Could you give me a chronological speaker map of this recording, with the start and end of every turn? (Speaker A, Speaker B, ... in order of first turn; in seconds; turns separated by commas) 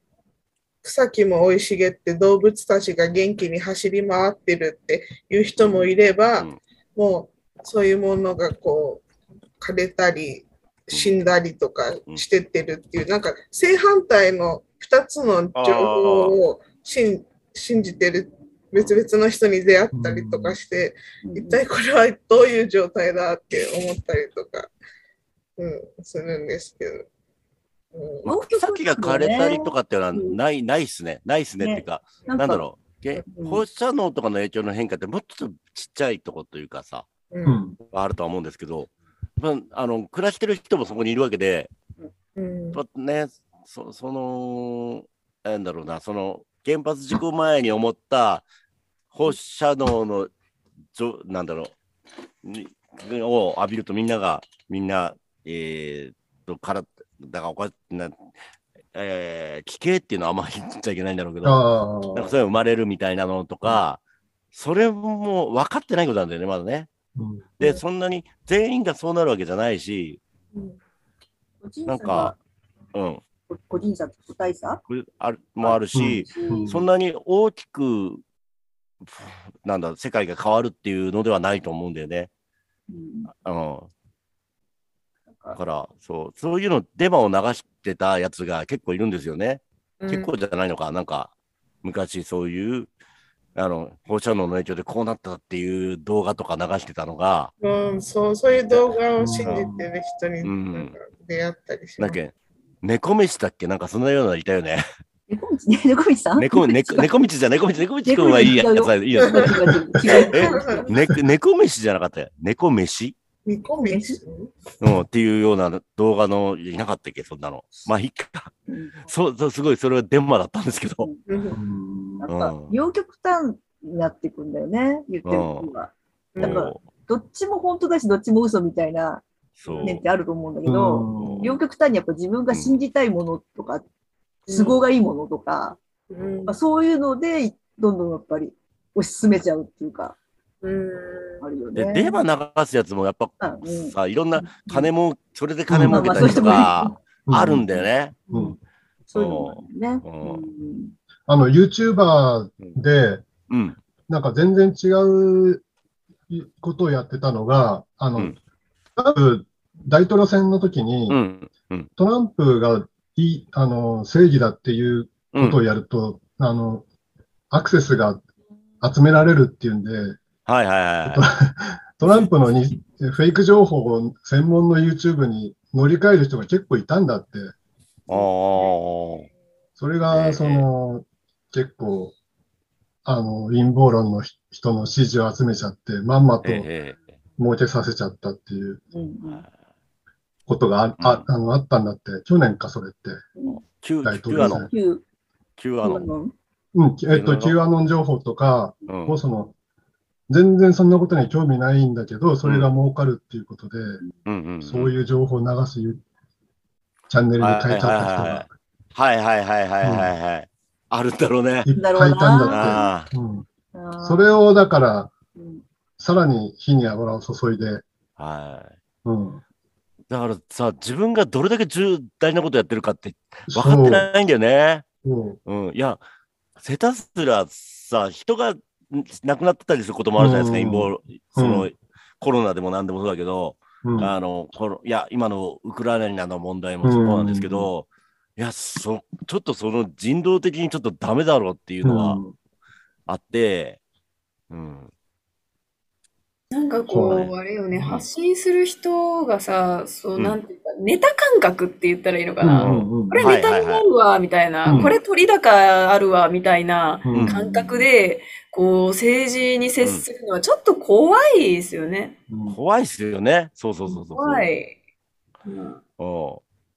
Speaker A: 0.8-9.0, Speaker B: 5.6-6.6, Speaker A: 9.6-24.7, Speaker B: 10.9-11.2, Speaker B: 15.5-16.4, Speaker C: 19.9-20.6, Speaker D: 21.2-21.6, Speaker A: 25.6-27.1, Speaker A: 27.9-28.2, Speaker B: 28.2-37.0, Speaker D: 28.2-29.8, Speaker D: 31.6-32.6, Speaker D: 33.2-33.6, Speaker C: 37.5-37.8, Speaker B: 37.9-41.7, Speaker A: 42.3-42.8, Speaker B: 42.7-48.4, Speaker B: 49.1-50.3, Speaker B: 50.9-51.7, Speaker B: 52.4-58.3, Speaker B: 58.9-61.6, Speaker C: 61.4-62.3, Speaker B: 62.1-64.0, Speaker B: 64.5-66.9, Speaker C: 67.1-67.5, Speaker B: 67.6-70.2, Speaker D: 71.6-72.4, Speaker B: 71.8-72.3, Speaker B: 72.9-73.2, Speaker D: 73.5-74.8, Speaker B: 74.9-78.2, Speaker C: 75.9-76.8, Speaker B: 79.0-82.3, Speaker D: 82.9-83.3, Speaker B: 83.3-83.9, Speaker B: 85.5-91.3, Speaker A: 90.0-90.3, Speaker B: 91.8-92.9, Speaker B: 93.5-97.5, Speaker A: 97.6-102.2, Speaker C: 99.2-99.9, Speaker B: 100.4-101.0, Speaker B: 102.0-104.8, Speaker D: 105.3-107.1, Speaker B: 106.3-113.1, Speaker D: 108.0-111.0, Speaker A: 110.1-110.8, Speaker A: 113.5-114.5, Speaker D: 113.8-114.2, Speaker B: 114.8-118.5, Speaker D: 118.7-119.1, Speaker B: 119.0-121.1, Speaker A: 121.3-121.6, Speaker C: 121.5-122.3, Speaker D: 122.2-129.2, Speaker B: 122.2-122.8, Speaker B: 125.2-125.7, Speaker A: 126.4-126.6, Speaker B: 126.4-126.8, Speaker B: 129.6-130.0, Speaker A: 129.6-129.9, Speaker D: 129.8-133.8, Speaker C: 130.7-131.5, Speaker B: 131.2-131.6, Speaker B: 132.5-132.8, Speaker A: 134.5-134.9, Speaker D: 134.5-135.8, Speaker A: 136.1-136.6, Speaker B: 136.2-136.5, Speaker D: 136.5-140.2, Speaker A: 140.6-141.4, Speaker D: 141.4-142.2, Speaker B: 141.7-148.2, Speaker D: 143.4-144.9, Speaker C: 145.7-146.5, Speaker D: 145.8-147.0, Speaker C: 147.2-147.7, Speaker C: 148.3-148.6, Speaker D: 149.1-150.9, Speaker B: 149.1-150.5, Speaker C: 151.3-153.2, Speaker B: 153.5-153.8, Speaker C: 154.1-155.6, Speaker C: 156.3-158.3, Speaker C: 159.0-161.2, Speaker B: 161.1-161.9, Speaker C: 162.0-166.8, Speaker B: 165.3-165.6, Speaker C: 167.5-168.2, Speaker C: 168.8-170.2, Speaker B: 170.4-171.2, Speaker C: 171.1-177.5, Speaker B: 178.1-179.3, Speaker C: 179.8-182.1, Speaker B: 180.1-180.7, Speaker C: 183.0-186.7, Speaker B: 186.4-187.0, Speaker C: 187.4-188.8, Speaker D: 188.9-189.4, Speaker C: 190.4-193.3, Speaker B: 191.0-191.3, Speaker D: 193.3-193.6, Speaker B: 193.5-194.7, Speaker C: 194.0-194.7, Speaker D: 194.4-195.0, Speaker B: 195.6-196.1, Speaker D: 195.8-196.3, Speaker C: 196.7-199.5, Speaker B: 197.1-197.6, Speaker B: 198.9-199.2, Speaker C: 200.3-204.0, Speaker B: 202.4-202.7, Speaker B: 204.2-204.9, Speaker C: 204.6-206.0, Speaker C: 207.1-208.6, Speaker B: 207.4-211.7, Speaker C: 209.8-210.1, Speaker C: 211.7-213.4, Speaker D: 211.7-212.9, Speaker B: 212.5-213.1, Speaker D: 213.7-214.3, Speaker C: 214.0-215.1, Speaker D: 215.3-215.6, Speaker C: 216.0-217.8, Speaker B: 218.2-218.7, Speaker C: 219.0-219.4, Speaker B: 220.1-224.8, Speaker C: 223.5-224.1, Speaker C: 225.0-225.4, Speaker B: 225.4-226.0, Speaker B: 226.6-242.2, Speaker C: 230.2-231.7, Speaker C: 233.8-234.1, Speaker C: 236.8-237.7, Speaker C: 241.8-242.3, Speaker B: 243.1-243.8, Speaker B: 244.5-244.9, Speaker E: 246.5-262.1, Speaker C: 246.9-248.0, Speaker C: 252.4-253.3, Speaker B: 252.6-253.8, Speaker C: 254.7-254.9, Speaker C: 257.0-257.8, Speaker B: 257.1-257.4, Speaker C: 262.3-262.6, Speaker B: 262.5-264.5, Speaker E: 263.9-264.8, Speaker E: 265.4-265.8, Speaker B: 266.0-266.4